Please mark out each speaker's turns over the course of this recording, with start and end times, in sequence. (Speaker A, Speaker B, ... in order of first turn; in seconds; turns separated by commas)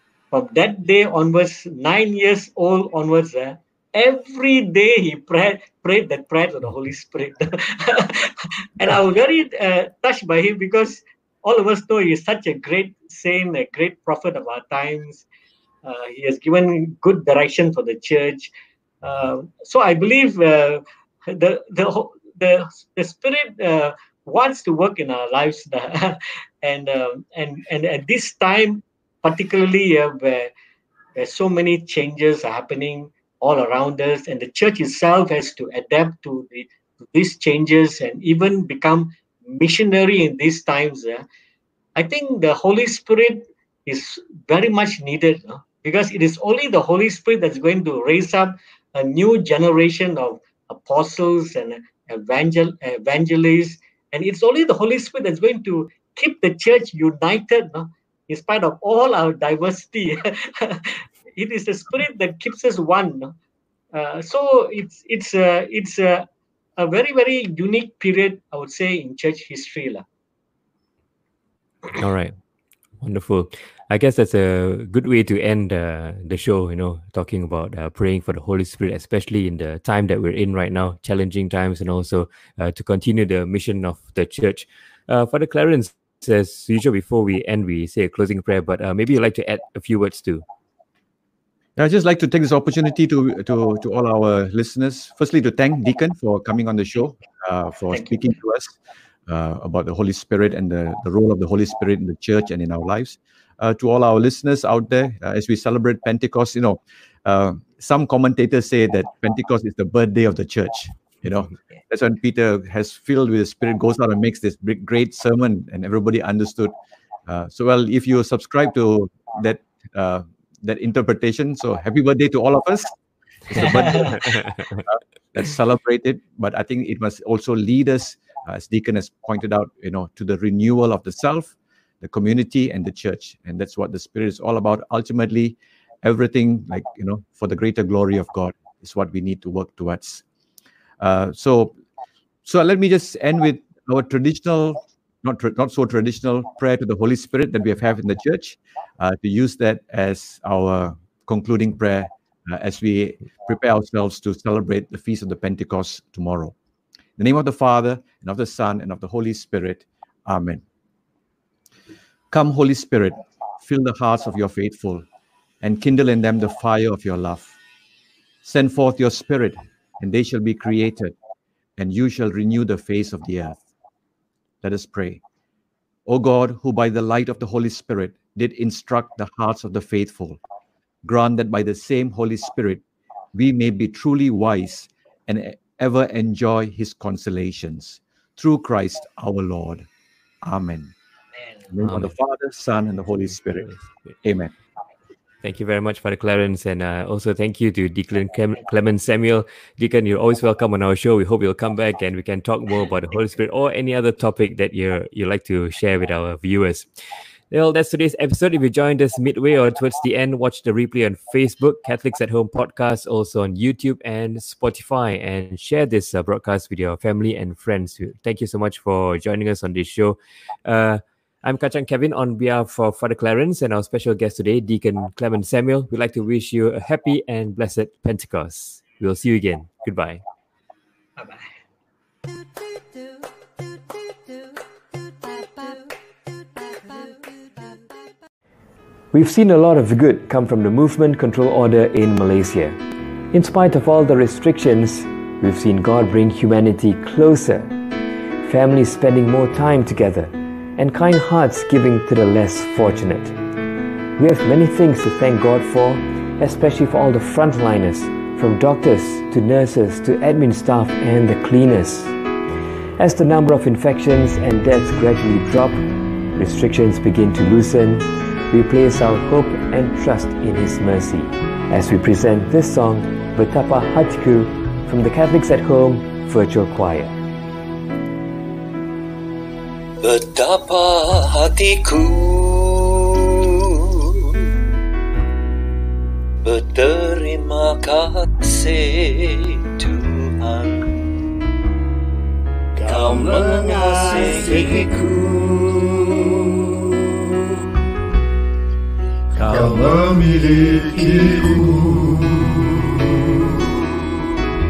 Speaker A: 0.3-15.2, Speaker A: 15.8-18.5, Speaker A: 19.0-30.5, Speaker A: 31.1-41.2, Speaker A: 42.0-63.3, Speaker A: 63.9-66.2, Speaker A: 66.8-70.0, Speaker B: 71.9-72.3, Speaker B: 73.0-90.4, Speaker C: 91.8-98.8, Speaker C: 99.3-116.7, Speaker C: 117.3-122.9, Speaker C: 123.5-140.2, Speaker A: 123.6-124.2, Speaker C: 141.0-141.7, Speaker C: 142.4-156.5, Speaker C: 157.2-160.6, Speaker C: 162.3-165.1, Speaker C: 165.6-167.5, Speaker C: 168.4-171.1, Speaker C: 171.8-173.6, Speaker C: 174.6-175.2, Speaker C: 176.1-180.4, Speaker C: 181.0-182.8, Speaker C: 183.3-189.9, Speaker C: 190.4-190.9, Speaker C: 191.7-193.7, Speaker B: 191.8-192.2, Speaker B: 193.5-194.1, Speaker C: 194.2-194.5, Speaker B: 195.4-206.9, Speaker B: 207.5-230.2, Speaker A: 231.2-231.5, Speaker B: 239.1-242.8, Speaker B: 243.3-247.8, Speaker B: 248.4-253.3, Speaker B: 254.2-262.1, Speaker B: 263.0-277.1, Speaker D: 280.0-283.5, Speaker D: 286.4-291.1, Speaker E: 292.8-295.8, Speaker D: 292.8-295.5, Speaker E: 299.4-302.9